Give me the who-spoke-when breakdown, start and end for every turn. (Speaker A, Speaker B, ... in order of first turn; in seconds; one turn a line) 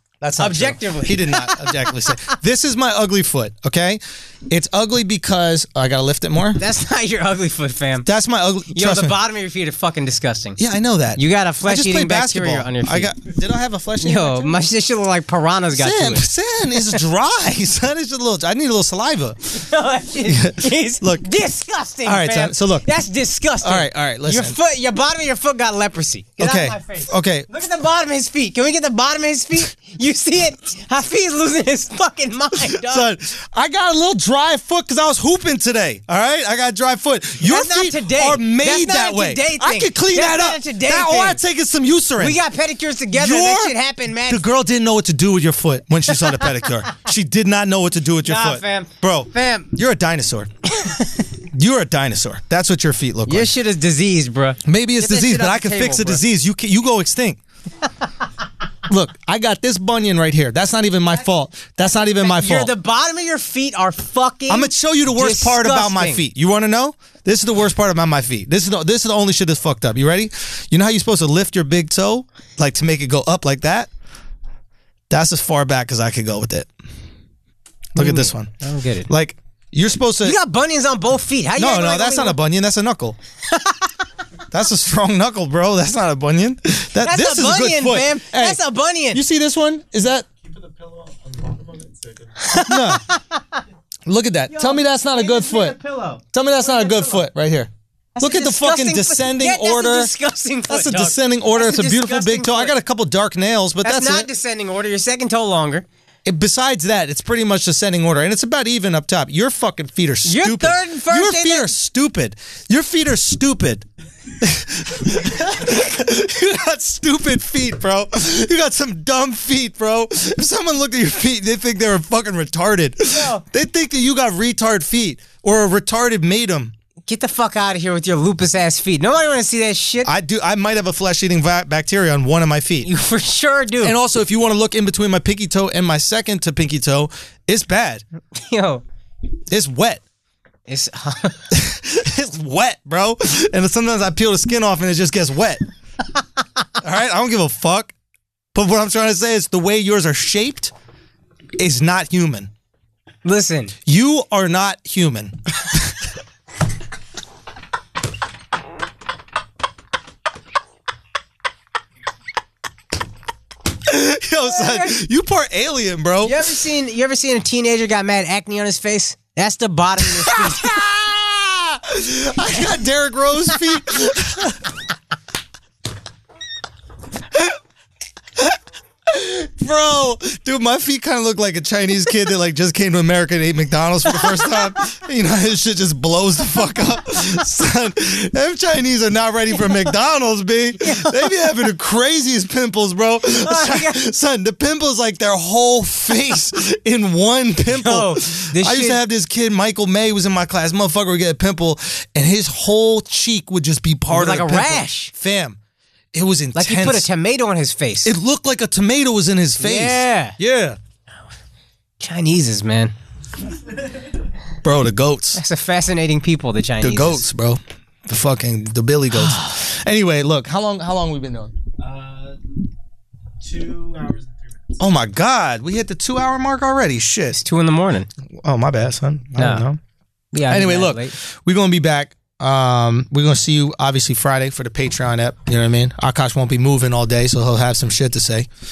Speaker A: 0.2-6.6
Speaker B: 0.4-1.9
Speaker B: 6.6-8.1
Speaker A: 8.0-9.2
Speaker B: 8.7-10.6
Speaker A: 10.6-14.6
Speaker B: 11.2-13.1
Speaker B: 14.0-16.3
Speaker A: 15.8-19.6
Speaker B: 19.5-33.1
Speaker A: 20.2-21.3
Speaker A: 22.0-22.9
Speaker A: 23.6-24.6
Speaker A: 26.4-27.5
Speaker A: 32.5-42.4
Speaker B: 37.4-41.4
Speaker B: 42.2-44.4
Speaker A: 43.1-50.5
Speaker B: 48.2-49.7
Speaker B: 50.7-51.2
Speaker A: 51.4-53.5
Speaker B: 53.3-56.2
Speaker A: 54.6-57.4
Speaker A: 58.9-62.7
Speaker B: 61.9-66.2
Speaker A: 64.5-73.9
Speaker A: 75.1-76.7
Speaker A: 77.9-78.5
Speaker B: 78.0-79.1
Speaker A: 79.1-80.4
Speaker B: 80.2-82.4
Speaker A: 81.5-83.2
Speaker B: 83.5-83.9
Speaker A: 84.5-88.6
Speaker B: 87.0-89.2
Speaker A: 89.1-90.2
Speaker C: 90.4-92.6
Speaker B: 92.4-93.6
Speaker A: 92.6-93.1
Speaker A: 94.0-95.8
Speaker B: 94.5-97.2
Speaker A: 96.3-100.1
Speaker B: 98.2-102.7
Speaker A: 100.7-104.3
Speaker B: 103.8-105.8
Speaker A: 106.2-113.8
Speaker B: 110.2-111.7
Speaker A: 114.4-126.7
Speaker B: 123.1-123.4
Speaker B: 127.1-130.1
Speaker A: 130.0-132.9
Speaker B: 132.8-133.9
Speaker A: 133.8-138.0
Speaker B: 138.3-138.8
Speaker A: 139.5-140.0
Speaker B: 140.7-141.4
Speaker A: 141.5-145.6
Speaker A: 146.8-147.9
Speaker A: 148.5-150.7
Speaker A: 151.6-152.5
Speaker B: 153.2-153.7
Speaker A: 153.8-156.1
Speaker A: 163.8-166.5
Speaker B: 164.5-165.0
Speaker B: 166.2-170.8
Speaker A: 170.0-174.8
Speaker A: 177.3-177.6
Speaker A: 178.3-205.6
Speaker B: 190.8-191.3
Speaker B: 193.3-194.0
Speaker B: 197.7-199.0
Speaker B: 204.1-205.1
Speaker A: 206.1-207.1
Speaker B: 206.5-208.1
Speaker A: 208.0-210.8
Speaker B: 209.6-210.4
Speaker B: 212.0-212.9
Speaker A: 214.6-215.4
Speaker B: 215.3-217.2
Speaker A: 216.8-221.6
Speaker B: 219.1-219.6
Speaker C: 221.8-222.4
Speaker C: 223.4-224.9
Speaker A: 224.8-227.4
Speaker B: 227.3-228.1
Speaker A: 228.3-229.8
Speaker B: 229.3-229.7
Speaker B: 230.3-231.1
Speaker A: 230.4-238.5